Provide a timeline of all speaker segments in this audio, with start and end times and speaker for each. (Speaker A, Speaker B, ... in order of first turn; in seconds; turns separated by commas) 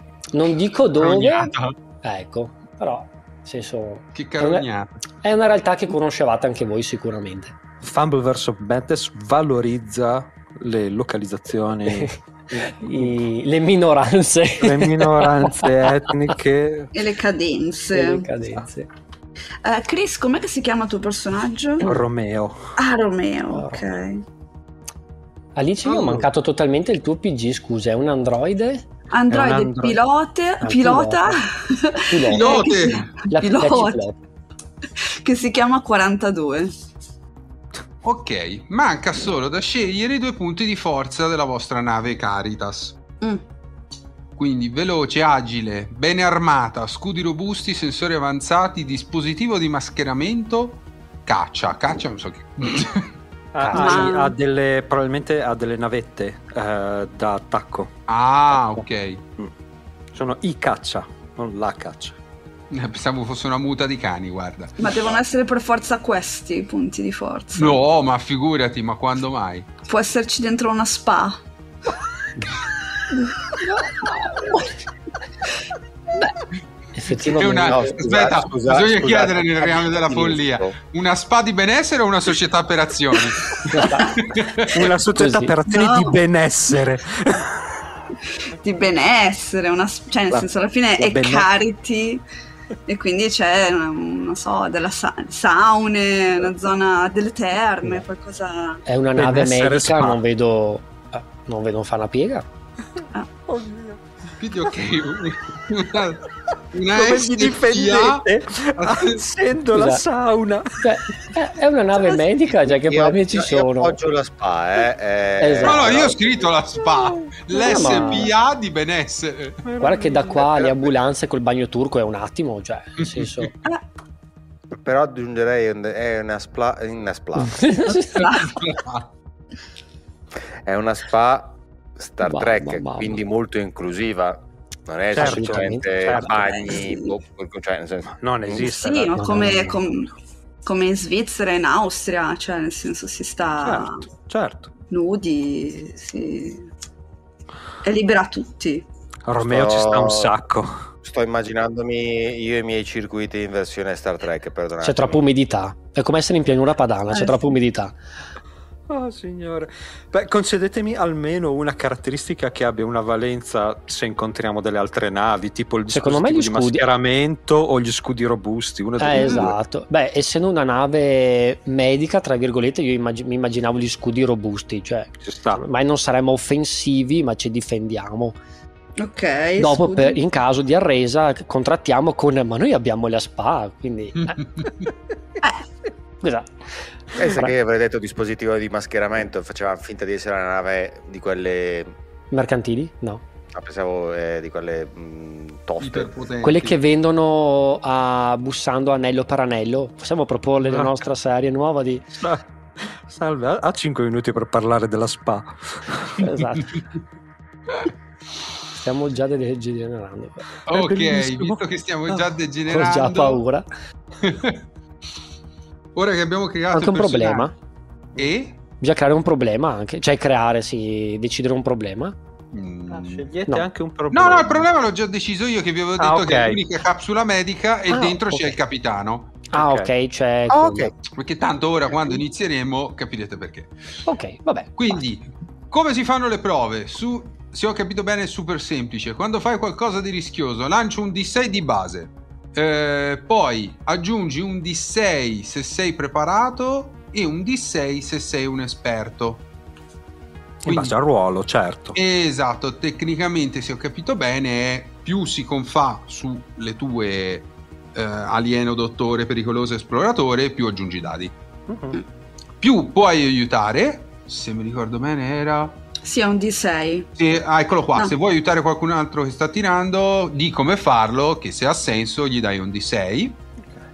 Speaker A: 0.3-1.5, Speaker B: 1.0-1.7, Speaker A: 2.0-4.7, Speaker B: 4.1-4.9, Speaker A: 5.2-7.5, Speaker C: 7.8-12.1, Speaker A: 11.9-16.1, Speaker C: 14.6-16.9, Speaker D: 16.9-18.3, Speaker A: 17.9-18.9, Speaker D: 19.6-21.9, Speaker C: 21.8-22.6, Speaker D: 22.8-24.2, Speaker A: 23.5-24.0, Speaker A: 25.6-28.9, Speaker B: 25.9-26.2, Speaker D: 29.1-34.0, Speaker C: 29.3-30.0, Speaker A: 30.6-31.4, Speaker A: 32.1-32.7, Speaker B: 32.3-33.1, Speaker A: 33.3-34.2, Speaker D: 35.0-36.7, Speaker B: 38.0-43.0, Speaker B: 44.4-53.1, Speaker C: 53.5-57.9, Speaker A: 53.6-54.1, Speaker D: 53.7-54.3, Speaker B: 58.1-59.2, Speaker C: 58.5-58.8, Speaker C: 60.1-62.2, Speaker B: 62.7-65.0, Speaker D: 64.8-67.8, Speaker B: 67.5-69.7, Speaker D: 69.9-71.4, Speaker A: 73.7-74.7, Speaker A: 77.0-77.8, Speaker B: 77.1-84.8, Speaker E: 77.5-80.7, Speaker D: 83.8-84.1, Speaker C: 84.7-88.0, Speaker A: 85.2-85.5, Speaker D: 85.7-86.1, Speaker D: 88.5-92.2, Speaker C: 90.3-91.5, Speaker D: 92.9-98.8, Speaker A: 98.8-102.5, Speaker C: 99.2-100.2, Speaker C: 103.5-104.0, Speaker B: 104.4-108.2, Speaker C: 106.9-110.9, Speaker B: 108.8-109.2, Speaker A: 109.8-110.0, Speaker A: 110.8-114.0, Speaker E: 112.5-116.2, Speaker A: 115.4-116.1, Speaker B: 115.6-119.6, Speaker A: 117.6-118.3, Speaker C: 119.6-120.5, Speaker A: 119.8-123.5, Speaker E: 124.7-127.8, Speaker A: 127.4-128.3, Speaker B: 128.2-129.1, Speaker E: 130.7-138.8, Speaker A: 132.2-133.2, Speaker C: 135.1-136.8, Speaker A: 135.1-135.9, Speaker C: 138.2-139.8, Speaker D: 138.6-140.1, Speaker A: 139.2-139.8, Speaker D: 140.6-144.1, Speaker C: 143.6-144.7, Speaker D: 144.9-146.7, Speaker D: 147.8-148.8, Speaker C: 149.2-150.8, Speaker E: 149.4-150.3, Speaker E: 151.0-155.2, Speaker A: 154.8-157.9, Speaker C: 158.9-169.6, Speaker A: 165.9-166.8, Speaker A: 169.0-178.4, Speaker D: 169.1-169.5, Speaker C: 175.2-175.6, Speaker D: 179.0-180.2, Speaker A: 179.6-184.4, Speaker B: 184.2-184.9, Speaker A: 186.2-186.5, Speaker E: 187.2-191.9, Speaker A: 187.2-187.5, Speaker A: 192.3-193.2, Speaker E: 193.5-196.1, Speaker B: 195.8-196.8, Speaker A: 196.4-202.0, Speaker C: 200.6-200.9, Speaker C: 202.2-206.2, Speaker A: 206.2-206.7, Speaker A: 208.8-210.4, Speaker C: 210.7-212.3, Speaker B: 210.7-213.4, Speaker A: 212.7-213.6, Speaker B: 214.2-214.6, Speaker B: 215.9-217.5, Speaker A: 216.7-217.5, Speaker B: 218.2-218.5, Speaker A: 218.8-222.1, Speaker B: 222.5-223.3, Speaker C: 222.9-224.7, Speaker B: 224.1-229.4, Speaker C: 226.0-226.6, Speaker A: 227.9-228.6, Speaker A: 229.5-230.9, Speaker C: 229.5-229.9, Speaker E: 230.5-230.9, Speaker B: 231.2-233.7, Speaker A: 234.1-235.0, Speaker B: 234.8-249.4, Speaker C: 250.6-252.0, Speaker B: 250.7-250.9, Speaker B: 251.9-261.3, Speaker C: 261.7-262.0, Speaker B: 262.6-265.8, Speaker D: 266.0-267.1, Speaker B: 267.1-273.4